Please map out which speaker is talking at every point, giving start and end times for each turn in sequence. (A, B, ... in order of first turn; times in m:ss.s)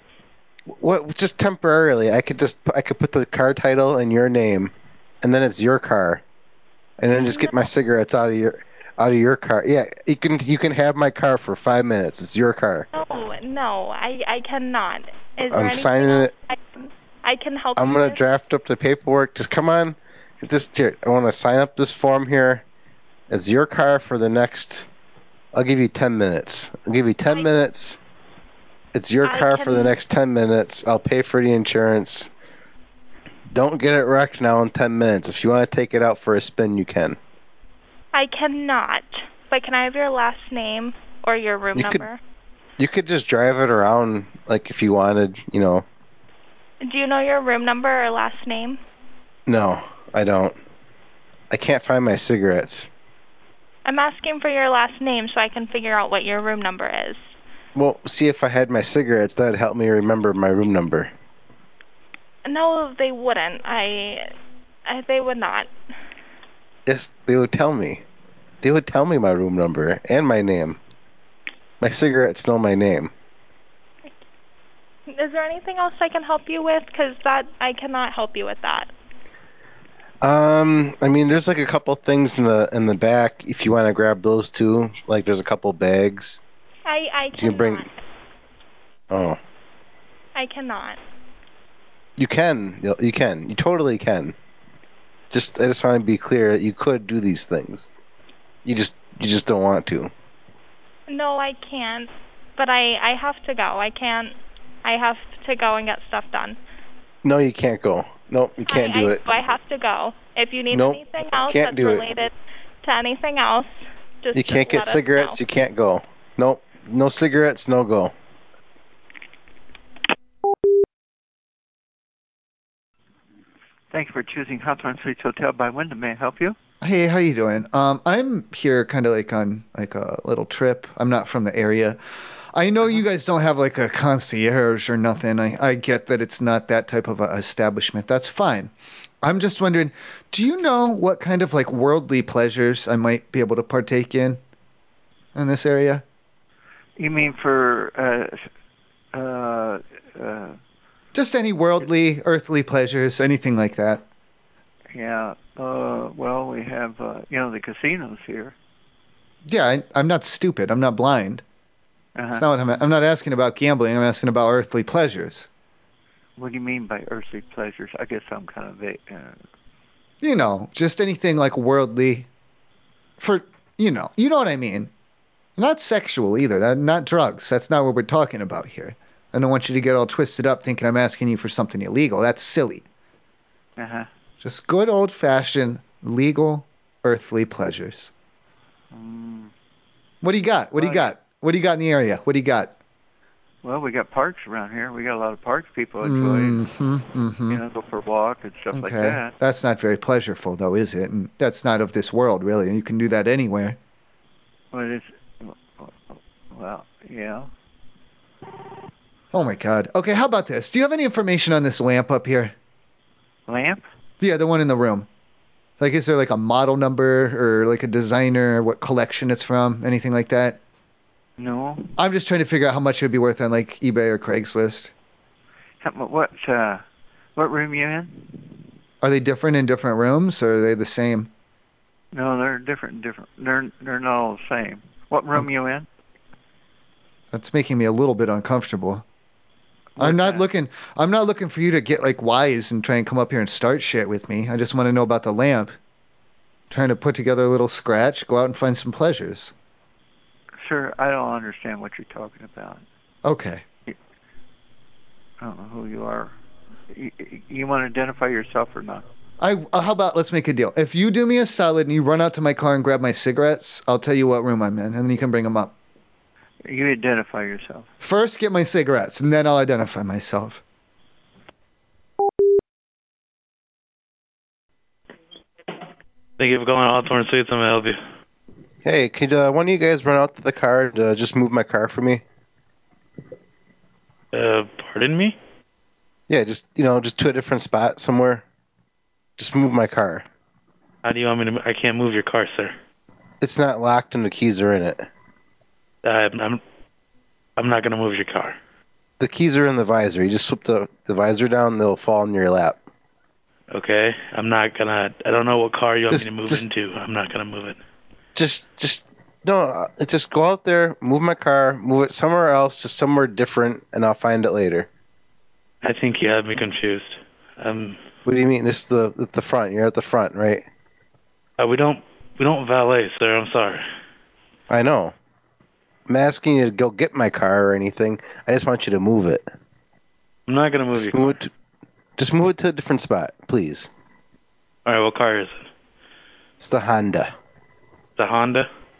0:00.7-0:06.2 A
0:07.0-0:12.8 A
0:07.1-0:07.7 B
0:12.9-0:18.2 B
0:15.4-0:16.3 A
0:17.8-0:22.6 A
0:23.3-0:24.9 A
0:25.5-0:28.0 A
0:28.9-0:32.3 A
0:29.2-0:29.9 B
0:33.5-0:37.2 A
0:38.1-0:42.2 B
0:41.8-0:42.0 A
0:42.8-0:45.8 A
0:46.8-0:48.8 B
0:49.5-0:50.6 A
0:51.5-0:52.9 A
0:53.8-0:57.4 B
0:57.7-1:01.1 A
1:02.4-1:04.3 B
1:04.8-1:05.7 B
1:06.9-1:08.0 A
1:08.6-1:10.8 A
1:11.8-1:13.1 A
1:15.1-1:18.9 B
1:20.2-1:26.4 A
1:26.8-1:28.0 B
1:27.4-1:27.8 A
1:29.1-1:29.4 A
1:30.3-1:31.0 B
1:32.2-1:34.3 A
1:35.3-1:37.9 A
1:38.6-1:40.1 A
1:41.1-1:46.6 B
1:47.2-1:49.2 A
1:48.7-1:55.4 B
1:50.7-1:52.0 A
1:54.3-1:58.1 A
2:03.9-2:06.6 C
2:06.8-2:12.0 D
2:12.5-2:24.4 D
2:25.3-2:26.0 D
2:27.0-2:28.4 C
2:29.1-2:30.6 C
2:31.1-2:34.0 D
2:34.9-2:38.5 C
2:39.4-2:41.4 D
2:42.2-2:42.5 C
2:42.3-2:45.5 D
2:46.4-2:49.4 C
2:50.2-2:52.3 D
2:53.2-2:54.9 D
2:55.6-3:02.8 D
3:03.8-3:04.1 C
3:04.4-3:08.1 D
3:08.9-3:09.5 C
3:10.2-3:12.7 D
3:10.8-3:11.1 C
3:13.6-3:16.6 C
3:16.0-3:17.6 D
3:17.5-3:19.3 C
3:18.7-3:23.8 D
3:24.7-3:27.5 C
3:29.3-3:32.5 D
3:33.5-3:33.8 C
3:34.2-3:35.1 D
3:35.8-3:40.6 D
3:41.4-3:41.9 C
3:42.0-3:44.9 D
3:45.8-3:46.8 C
3:47.4-3:48.4 C
3:49.0-3:51.3 D
3:52.1-3:55.8 C
3:57.3-3:59.0 D
4:00.0-4:00.4 C
4:00.0-4:05.7 D
4:06.7-4:09.5 D
4:10.6-4:12.8 C
4:13.2-4:13.6 D
4:15.4-4:16.3 C
4:16.9-4:19.1 C
4:19.4-4:25.7 D
4:26.6-4:27.9 C
4:28.0-4:30.6 D
4:36.4-4:38.0 E
4:38.8-4:42.2 A
4:44.3-4:45.4 E
4:46.3-4:48.4 A
4:49.4-4:50.2 A
4:51.0-4:52.7 E
4:53.4-4:55.0 A
4:56.0-4:56.6 E
4:57.6-4:58.6 E
4:59.2-5:02.8 A
5:03.7-5:07.8 E
5:06.1-5:06.6 A
5:08.3-5:14.9 A
5:15.8-5:18.0 E
5:18.2-5:20.6 A
5:21.6-5:23.9 E
5:24.7-5:25.1 A
5:26.1-5:29.4 A
5:30.5-5:31.4 E
5:30.9-5:31.5 A
5:32.2-5:33.9 A
5:34.8-5:35.7 E
5:36.6-5:37.3 A
5:38.2-5:38.7 E